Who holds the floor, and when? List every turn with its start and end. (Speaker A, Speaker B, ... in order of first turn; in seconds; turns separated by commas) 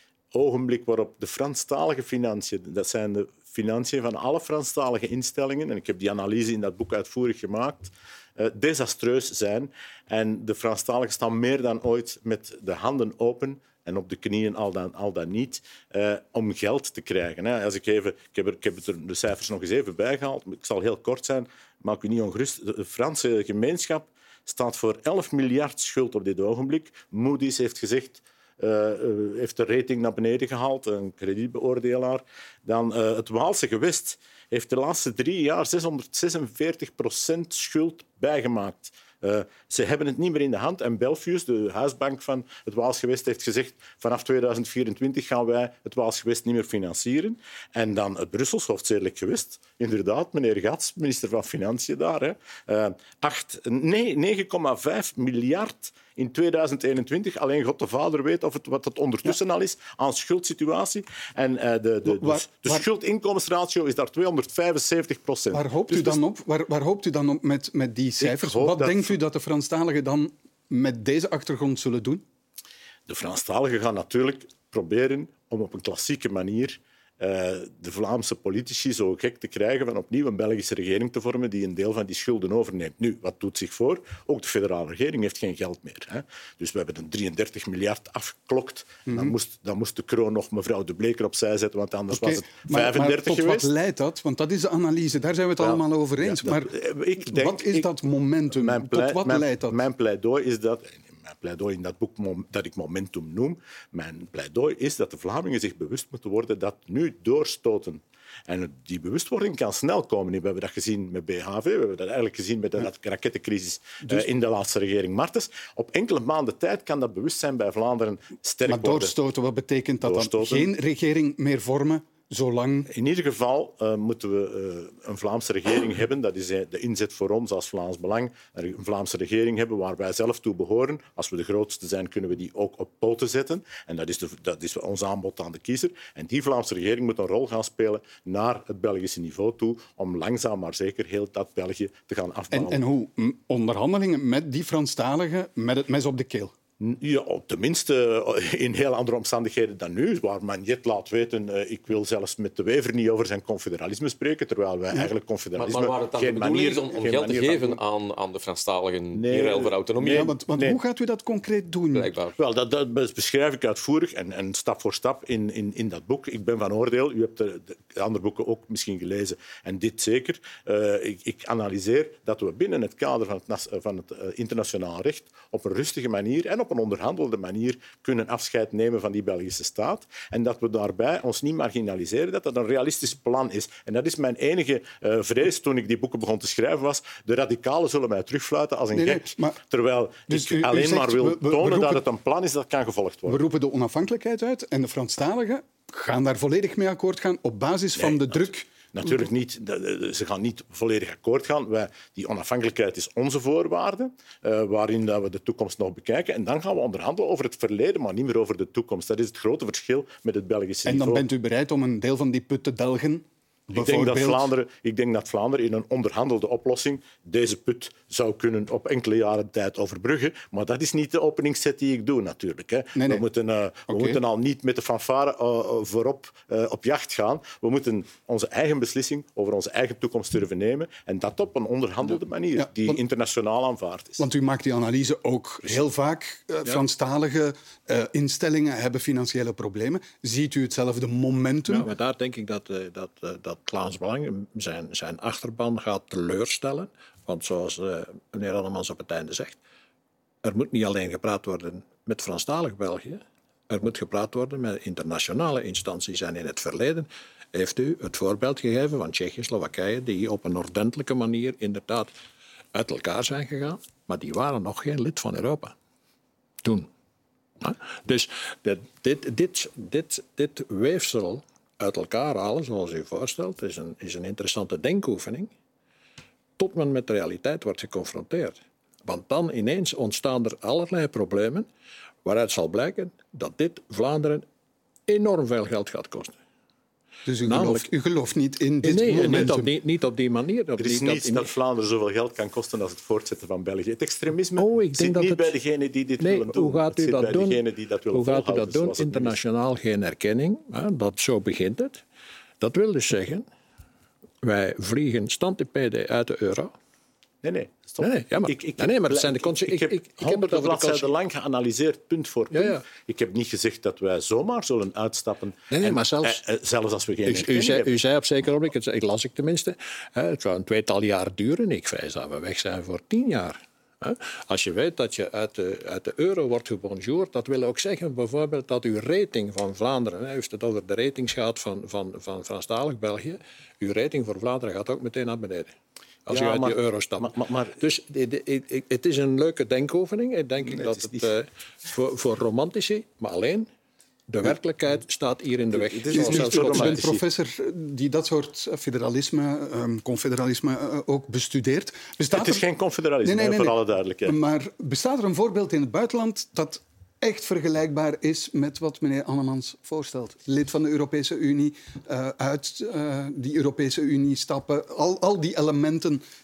Speaker A: 0.3-66.2, Speaker B: 62.0-62.9, Speaker B: 65.5-72.2, Speaker A: 68.2-69.2, Speaker A: 73.1-93.7, Speaker B: 89.1-89.3, Speaker B: 92.1-99.8, Speaker A: 95.6-97.9, Speaker A: 98.5-119.1, Speaker B: 118.7-122.9, Speaker A: 120.0-120.7, Speaker A: 122.9-142.8, Speaker B: 142.5-146.5, Speaker A: 146.8-157.8, Speaker C: 155.6-160.3, Speaker A: 159.1-160.8, Speaker B: 160.1-162.1, Speaker C: 161.9-162.4, Speaker A: 162.4-193.4, Speaker B: 188.9-189.6, Speaker B: 190.3-192.0, Speaker B: 193.3-199.3, Speaker A: 198.0-211.3, Speaker B: 210.9-214.5, Speaker A: 213.7-234.2, Speaker B: 223.0-223.2, Speaker B: 223.9-224.2, Speaker B: 232.6-233.0, Speaker B: 234.2-241.9, Speaker D: 241.7-249.6, Speaker D: 250.4-262.1, Speaker D: 262.7-265.7, Speaker D: 266.6-266.9, Speaker D: 267.6-275.5, Speaker D: 276.6-281.7, Speaker D: 282.2-284.4, Speaker D: 285.1-286.4, Speaker B: 287.3-289.7, Speaker D: 287.4-287.9, Speaker D: 288.8-291.5, Speaker A: 290.8-299.4, Speaker D: 294.6-295.5, Speaker D: 296.2-297.6, Speaker D: 298.1-302.0, Speaker D: 302.6-303.4, Speaker D: 304.4-306.7, Speaker A: 307.4-317.9, Speaker D: 308.0-311.1, Speaker D: 312.5-312.8, Speaker D: 315.7-316.4, Speaker D: 317.3-335.7, Speaker D: 336.3-343.7, Speaker A: 336.3-337.8, Speaker A: 340.6-341.3, Speaker D: 344.3-347.1, Speaker A: 345.7-347.2, Speaker B: 346.1-352.6, Speaker A: 352.3-354.4, Speaker B: 353.2-366.2